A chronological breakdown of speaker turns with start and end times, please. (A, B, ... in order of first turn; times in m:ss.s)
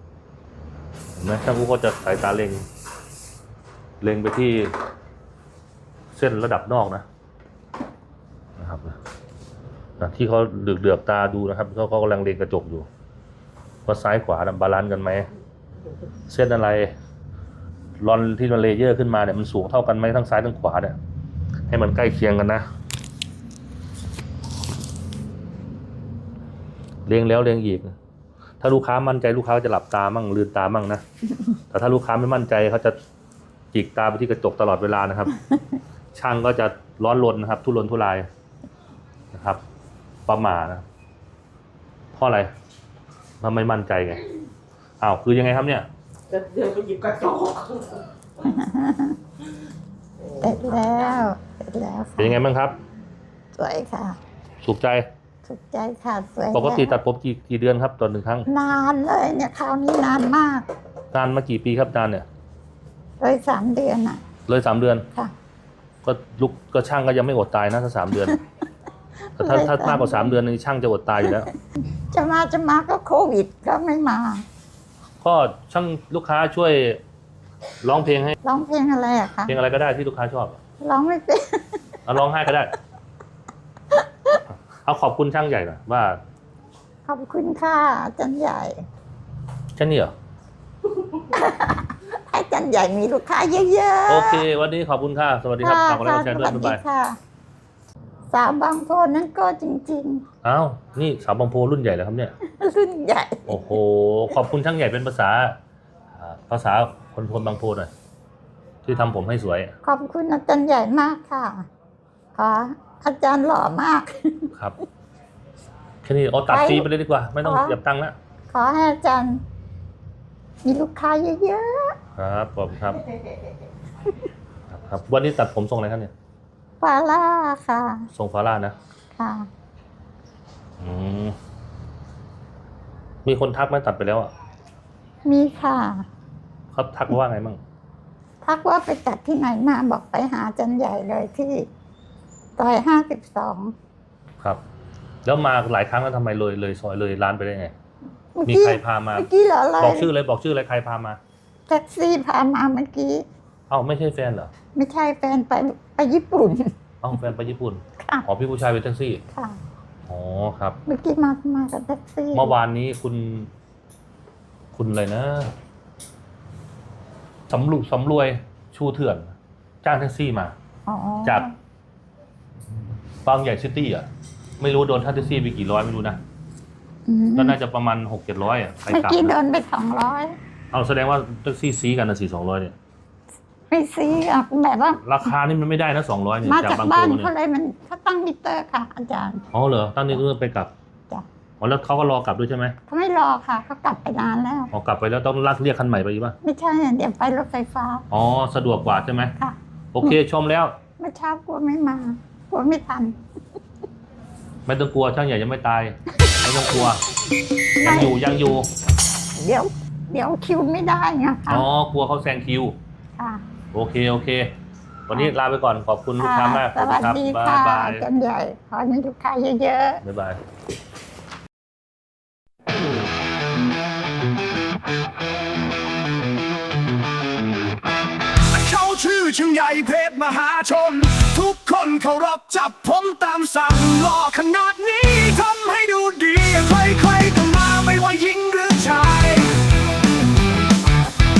0:01.2-0:02.6 A
0:04.0-0:04.7 A
0:06.1-0:07.0 A
0:08.6-0:09.0 A
0:10.0-0:12.9 A
0:13.8-0:15.3 A
0:16.3-0:16.9 A
0:18.0-0:21.0 A
0:21.7-0:22.6 A
0:27.0-0:27.9 A
0:28.6-0:31.0 A
0:31.7-0:33.0 A
0:33.7-0:35.4 A
0:36.1-0:38.3 A
0:39.3-0:39.6 A
0:40.3-0:40.8 A
0:42.1-0:42.5 A
0:43.4-0:44.2 A
0:45.0-0:45.9 A
0:46.3-0:48.1 B
0:48.4-0:49.2 C
0:50.2-0:51.2 B
0:50.4-0:52.4 C
0:52.2-0:52.8 A
0:53.5-0:54.2 C
0:54.6-0:55.1 A
0:55.4-0:57.0 C
0:56.5-0:58.5 A
0:58.5-1:00.7 C
1:01.1-1:02.2 A
1:03.2-1:04.2 C
1:04.5-1:05.0 A
1:06.0-1:08.4 A
1:09.3-1:10.3 C
1:09.4-1:11.5 A
1:12.1-1:14.4 C
1:15.2-1:17.0 A
1:17.8-1:18.4 A
1:18.4-1:19.6 C
1:19.5-1:20.6 A
1:20.8-1:21.8 C
1:22.0-1:22.7 A
1:24.8-1:26.2 A
1:27.0-1:28.8 C
1:29.7-1:30.1 A
1:31.2-1:34.4 C
1:34.1-1:36.8 A
1:35.6-1:37.2 C
1:38.3-1:40.2 C
1:40.4-1:42.3 A
1:42.6-1:43.8 C
1:43.5-1:45.6 A
1:46.1-1:47.9 A
1:48.8-1:49.7 A
1:49.8-1:51.7 C
1:52.4-1:54.5 C
1:56.0-1:58.1 A
1:56.5-1:56.9 C
1:57.4-1:57.8 C
1:58.5-1:59.4 C
2:00.6-2:01.9 C
2:02.2-2:03.0 A
2:04.7-2:06.1 A
2:06.8-2:08.1 C
2:08.1-2:08.8 A
2:09.2-2:09.5 C
2:10.8-2:11.4 A
2:13.2-2:14.3 A
2:15.2-2:16.1 C
2:16.7-2:17.6 A
2:18.4-2:21.7 C
2:22.6-2:23.7 C
2:25.2-2:27.7 A
2:28.4-2:30.1 C
2:28.4-2:29.3 A
2:29.8-2:31.2 A
2:31.7-2:33.2 C
2:33.7-2:34.5 A
2:34.7-2:36.7 C
2:37.0-2:39.2 A
2:39.3-2:39.6 C
2:40.1-2:40.8 A
2:40.9-2:42.5 C
2:42.3-2:43.5 A
2:44.7-2:45.5 A
2:47.5-2:50.5 A
2:50.9-2:51.5 C
2:53.2-2:54.1 A
2:54.6-2:56.2 A
2:57.1-2:57.6 C
2:57.3-2:59.4 A
2:58.9-3:00.3 C
3:00.7-3:02.7 A
3:03.7-3:05.2 C
3:05.0-3:07.3 A
3:06.4-3:09.4 C
3:09.5-3:10.7 A
3:11.6-3:12.7 A
3:12.9-3:14.7 C
3:14.7-3:16.4 A
3:16.4-3:18.0 C
3:18.1-3:19.3 A
3:19.4-3:20.1 C
3:19.9-3:20.8 A
3:21.0-3:23.2 C
3:24.6-3:27.0 A
3:27.8-3:28.2 C
3:27.8-3:28.7 A
3:29.4-3:31.6 C
3:31.5-3:32.8 A
3:33.2-3:33.4 C
3:33.7-3:34.5 A
3:35.1-3:38.1 A
3:36.2-3:40.0 C
3:40.0-3:40.4 A
3:48.5-3:59.5 D